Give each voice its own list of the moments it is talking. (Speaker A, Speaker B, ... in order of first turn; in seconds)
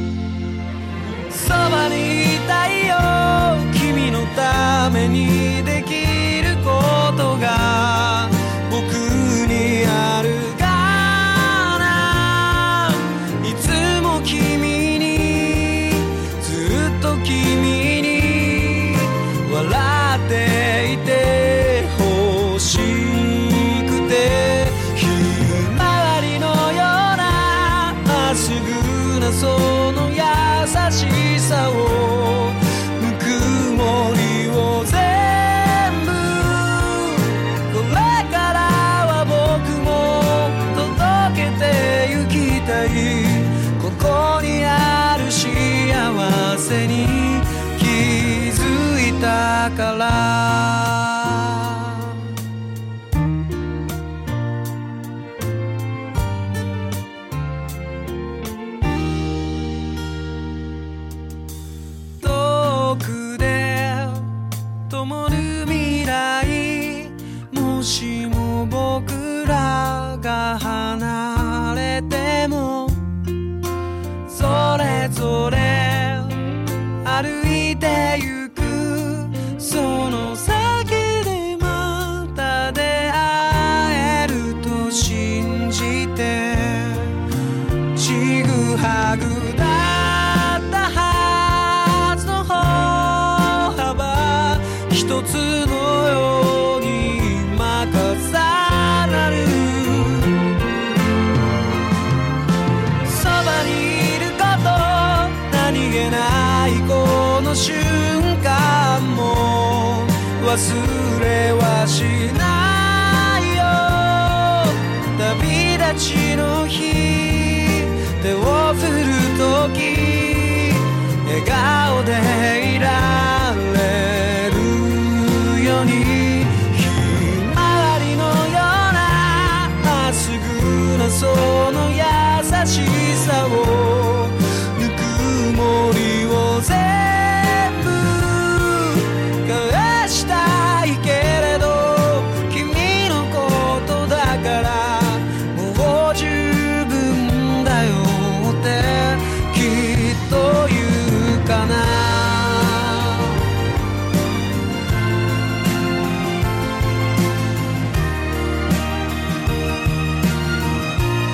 Speaker A: 1.3-52.3, 62.2-64.3, 64.9-73.2, 74.2-87.2, 87.9-100.5, 103.0-153.4